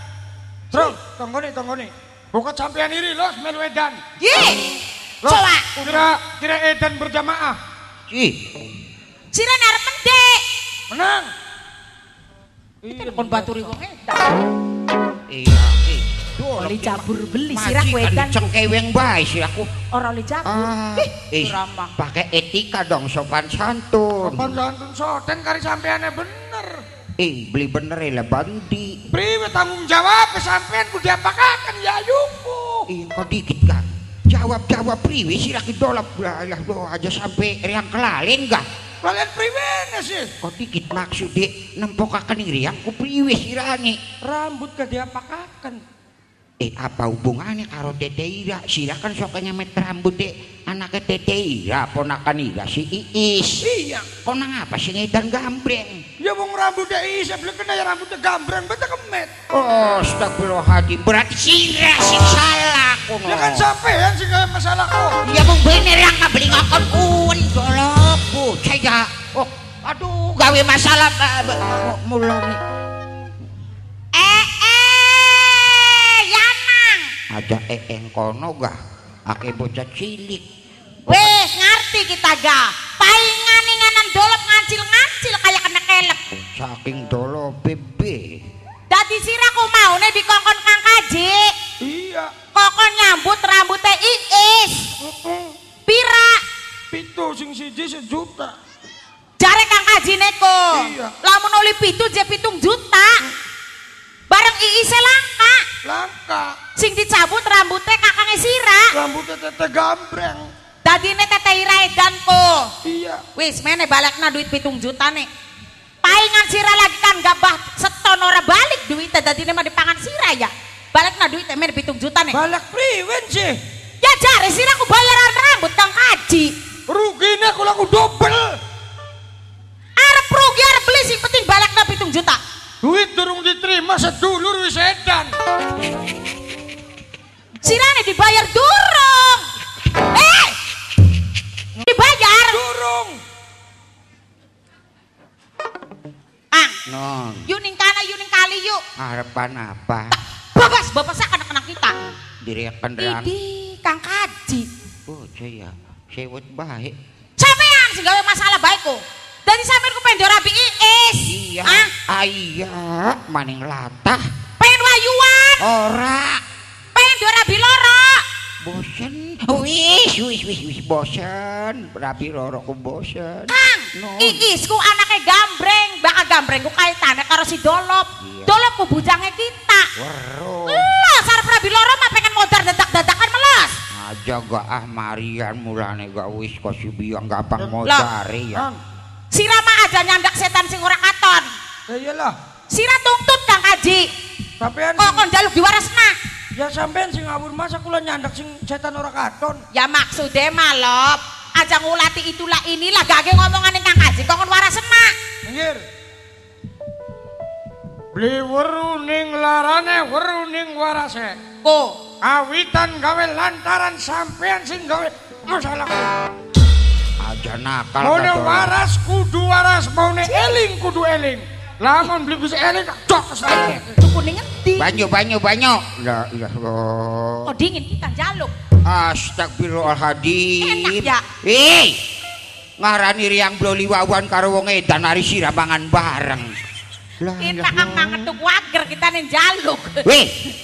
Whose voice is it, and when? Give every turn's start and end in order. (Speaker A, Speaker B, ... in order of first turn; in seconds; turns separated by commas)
Speaker A: 0.7-4.0, Speaker B: 4.2-4.7, Speaker A: 5.2-7.5, Speaker B: 5.2-6.1, Speaker C: 8.1-8.3, Speaker B: 9.3-10.4, Speaker A: 10.9-11.3, Speaker A: 12.8-13.7, Speaker B: 12.9-14.3, Speaker C: 15.3-19.7, Speaker B: 16.6-18.4, Speaker B: 19.9-21.9, Speaker C: 20.4-24.6, Speaker A: 24.2-26.7, Speaker C: 27.2-28.9, Speaker A: 29.1-32.9, Speaker C: 32.9-38.6, Speaker A: 39.0-40.3, Speaker C: 40.4-44.0, Speaker A: 44.2-45.8, Speaker C: 46.6-53.7, Speaker A: 53.6-54.0, Speaker C: 54.2-56.0, Speaker A: 56.2-59.3, Speaker C: 59.5-63.7, Speaker A: 63.2-65.2, Speaker C: 65.3-72.6, Speaker B: 74.1-77.1, Speaker C: 77.3-78.8, Speaker C: 79.3-80.4, Speaker C: 81.1-81.4, Speaker B: 81.1-86.2, Speaker C: 86.5-88.3, Speaker B: 88.9-91.5, Speaker A: 91.8-92.3, Speaker B: 92.5-94.9, Speaker A: 95.0-95.5, Speaker B: 95.9-96.4, Speaker A: 96.9-98.5, Speaker B: 99.4-103.2, Speaker A: 100.7-101.2, Speaker B: 104.3-105.6, Speaker A: 105.8-106.5, Speaker B: 106.8-108.9, Speaker A: 108.9-110.5, Speaker B: 110.8-112.7, Speaker A: 112.8-113.2, Speaker B: 113.4-115.3, Speaker B: 116.0-122.4, Speaker A: 122.3-123.5, Speaker B: 124.0-126.5, Speaker A: 126.9-128.5, Speaker B: 130.0-132.4, Speaker A: 132.8-135.3, Speaker B: 137.6-139.4, Speaker B: 140.1-140.6, Speaker B: 141.8-142.6, Speaker A: 142.5-143.2, Speaker C: 146.9-147.4, Speaker B: 147.5-148.8, Speaker C: 149.0-150.2, Speaker B: 150.5-151.9, Speaker C: 152.4-153.3, Speaker B: 153.0-154.7, Speaker C: 155.1-156.9, Speaker B: 157.4-161.9, Speaker C: 161.2-164.2, Speaker B: 164.6-165.6, Speaker C: 165.6-166.4, Speaker B: 166.9-168.2, Speaker C: 168.6-174.4, Speaker B: 173.5-179.9, Speaker C: 178.2-178.5, Speaker C: 180.0-180.9, Speaker B: 180.7-183.8, Speaker C: 183.9-188.6, Speaker A: 188.5-188.8, Speaker B: 189.3-191.5, Speaker A: 191.9-192.3, Speaker B: 192.7-194.0, Speaker A: 194.6-195.3, Speaker B: 195.0-196.2, Speaker A: 196.6-199.6, Speaker B: 199.7-205.1, Speaker A: 205.4-205.8, Speaker A: 208.1-211.4, Speaker B: 211.6-211.9, Speaker A: 212.2-216.1, Speaker C: 217.2-218.7, Speaker A: 218.0-223.9, Speaker B: 220.2-220.6, Speaker B: 223.5-224.9, Speaker C: 224.8-227.5, Speaker B: 227.4-228.5, Speaker C: 228.9-232.0, Speaker B: 230.6-231.2, Speaker C: 232.8-236.5, Speaker C: 237.2-238.3, Speaker B: 237.4-240.0, Speaker C: 240.0-240.3